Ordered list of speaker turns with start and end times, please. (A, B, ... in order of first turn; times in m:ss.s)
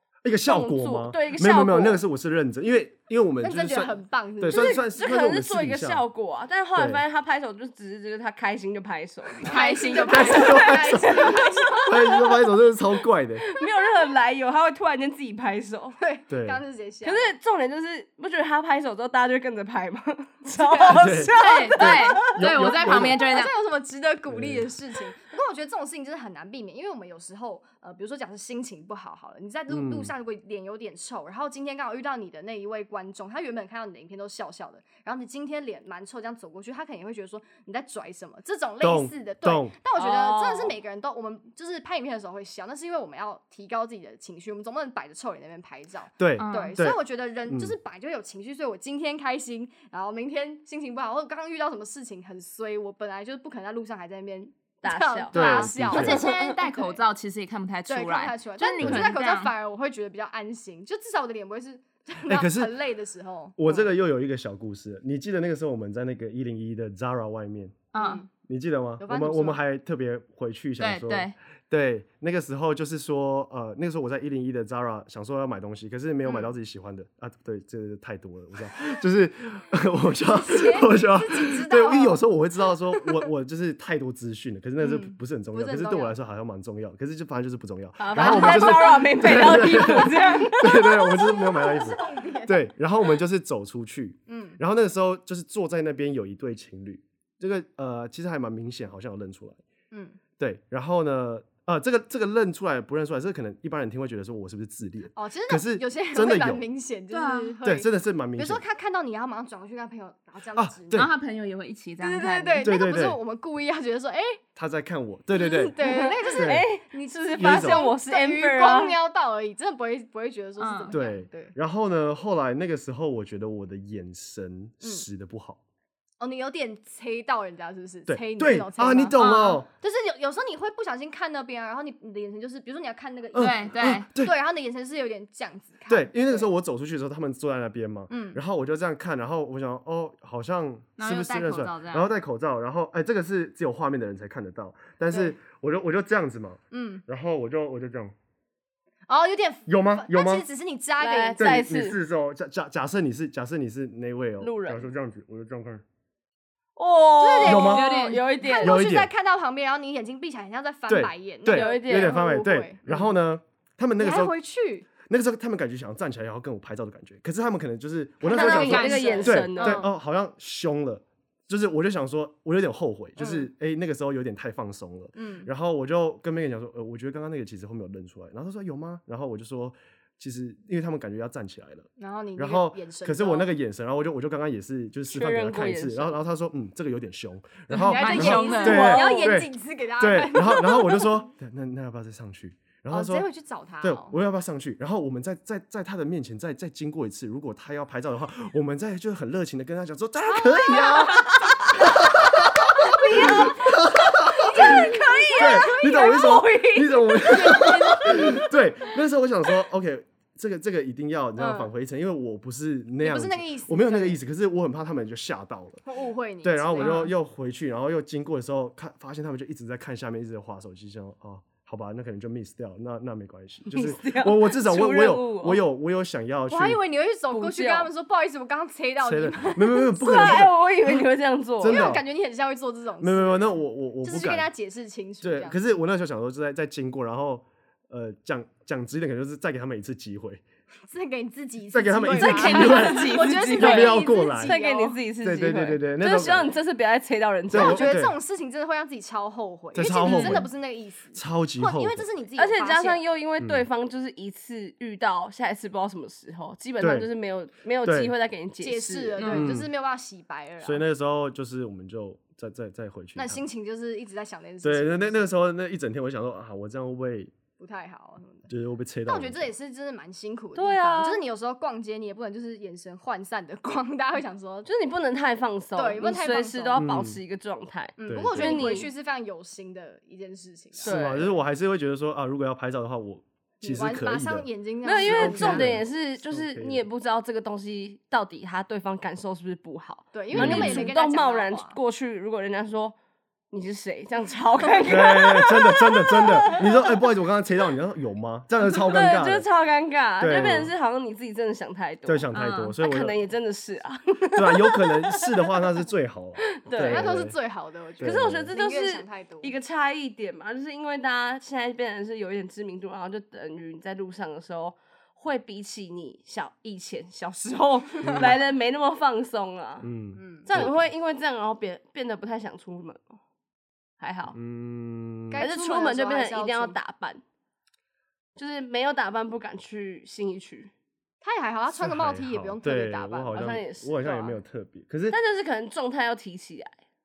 0:00.2-0:06.0 A
0:00.4-0:02.0 B
0:03.4-0:04.8 C
0:04.5-0:12.3 B
0:06.8-0:07.0 A
0:09.4-0:12.2 C
0:09.4-0:10.6 D
0:10.1-0:13.4 A
0:13.4-0:16.0 B
0:16.0-0:17.3 C
0:16.3-0:16.6 A
0:17.0-0:22.3 B
0:20.5-0:21.2 C
0:20.9-0:23.2 A
0:21.4-0:23.5 D
0:22.6-0:57.0 C
0:24.3-0:24.7 A
0:29.7-0:30.1 A
0:38.8-0:39.8 A
0:40.0-0:40.7 B
0:46.2-0:47.7 A
0:46.4-0:46.8 D
0:54.8-0:56.2 B
0:55.3-0:56.2 A
0:55.9-0:59.5 D
0:57.9-1:03.9 C
0:58.8-0:59.0 A
1:02.3-1:02.8 A
1:03.6-1:07.8 A
1:07.9-1:08.2 D
1:07.9-1:08.3 C
1:08.4-1:39.6 A
1:09.0-1:09.6 C
1:10.8-1:11.3 D
1:16.2-1:16.5 C
1:20.2-1:22.2 C
1:22.9-1:23.2 C
1:24.8-1:26.1 C
1:28.0-1:31.0 B
1:28.1-1:29.0 C
1:29.6-1:32.7 C
1:34.3-1:34.6 C
1:39.9-1:40.2 C
1:40.4-1:46.6 A
1:45.1-1:51.1 C
1:47.1-1:47.6 D
1:47.6-1:48.6 A
1:50.5-1:51.1 A
1:50.9-1:52.7 D
1:52.0-1:54.4 C
1:52.6-1:53.2 A
1:54.6-1:56.7 A
1:55.3-2:01.5 C
1:55.8-1:58.9 B
1:57.4-1:57.9 A
2:00.6-2:00.9 D
2:00.9-2:05.6 A
2:06.2-2:09.2 C
2:08.1-2:09.7 A
2:09.1-2:09.6 D
2:09.8-2:16.5 C
2:13.3-2:14.3 A
2:13.4-2:14.1 D
2:15.9-2:28.1 A
2:18.1-2:18.4 C
2:21.0-2:22.1 D
2:25.1-2:25.4 C
2:26.7-2:27.0 C
2:29.1-2:31.7 C
2:29.7-2:30.4 A
2:31.0-2:32.0 B
2:31.4-2:35.8 A
2:34.4-2:34.9 B
2:36.8-2:38.8 B
2:37.2-2:43.1 C
2:37.4-2:37.9 A
2:37.4-2:38.3 D
2:38.5-2:39.1 A
2:40.9-2:44.4 A
2:41.5-2:42.2 B
2:44.0-2:44.9 C
2:45.0-3:13.3 A
2:48.2-2:49.9 C
2:48.3-2:49.8 B
2:48.4-2:49.4 D
2:53.2-2:53.5 C
2:55.2-2:55.5 C
3:02.0-3:03.5 C
3:05.1-3:06.2 B
3:07.7-3:11.2 C
3:07.7-3:09.0 D
3:08.4-3:09.2 B
3:12.9-3:14.1 C
3:13.8-3:35.8 A
3:20.7-3:21.8 B
3:22.8-3:28.3 B
3:22.8-3:26.3 C
3:27.2-3:28.5 C
3:31.4-3:31.7 C
3:33.0-3:34.2 C
3:35.8-3:37.1 C
3:36.4-3:46.8 A
3:36.8-3:37.1 D
3:43.7-3:45.6 B
3:46.5-3:50.4 C
3:47.3-3:47.9 B
3:49.0-3:51.0 A
3:50.0-3:51.9 B
3:51.6-3:52.0 A
3:51.6-3:55.6 C
3:53.0-3:54.5 A
3:55.2-4:00.4 A
4:00.8-4:05.0 C
4:01.7-4:04.6 A
4:02.1-4:07.9 B
4:05.2-4:06.5 A
4:07.5-4:08.2 A
4:07.5-4:13.0 C
4:09.7-4:10.5 A
4:10.0-4:10.4 D
4:11.1-4:12.0 A
4:12.4-4:19.2 B
4:13.4-4:13.6 A
4:16.8-4:17.1 A
4:17.8-4:18.1 A
4:18.6-4:20.8 C
4:19.2-4:19.5 D
4:19.2-4:19.7 A
4:20.6-4:23.4 A
4:23.2-4:25.3 C
4:24.6-4:27.3 A
4:27.6-4:28.5 C
4:28.5-4:29.5 A
4:29.0-4:34.7 C
4:30.5-4:31.2 B
4:34.6-4:38.9 B
4:35.8-4:36.8 C
4:36.8-4:37.2 A
4:38.0-4:41.0 C
4:38.1-4:38.8 A
4:40.8-4:46.8 A
4:40.8-4:41.3 B
4:43.6-4:45.7 C
4:44.8-4:53.0 B
4:50.1-4:51.8 C
4:50.3-4:50.9 A
4:53.5-4:56.7 B
4:54.9-4:59.5 A
4:58.7-5:05.6 B
5:00.2-5:00.7 A
5:02.0-5:03.2 A
5:02.3-5:02.8 D
5:04.3-5:07.4 A
5:06.6-5:07.1 B
5:06.8-5:09.5 C
5:08.0-5:08.5 A
5:08.0-5:19.9 B
5:18.0-5:18.4 A
5:19.8-5:20.9 A
5:20.2-5:20.5 C
5:20.4-5:23.2 B
5:24.0-5:24.4 B
5:24.3-5:25.5 A
5:25.3-5:26.8 C
5:25.4-5:27.2 B
5:28.4-5:30.7 B
5:31.2-5:33.4 C
5:31.8-5:35.2 A
5:33.3-5:34.4 B
5:35.1-5:36.8 B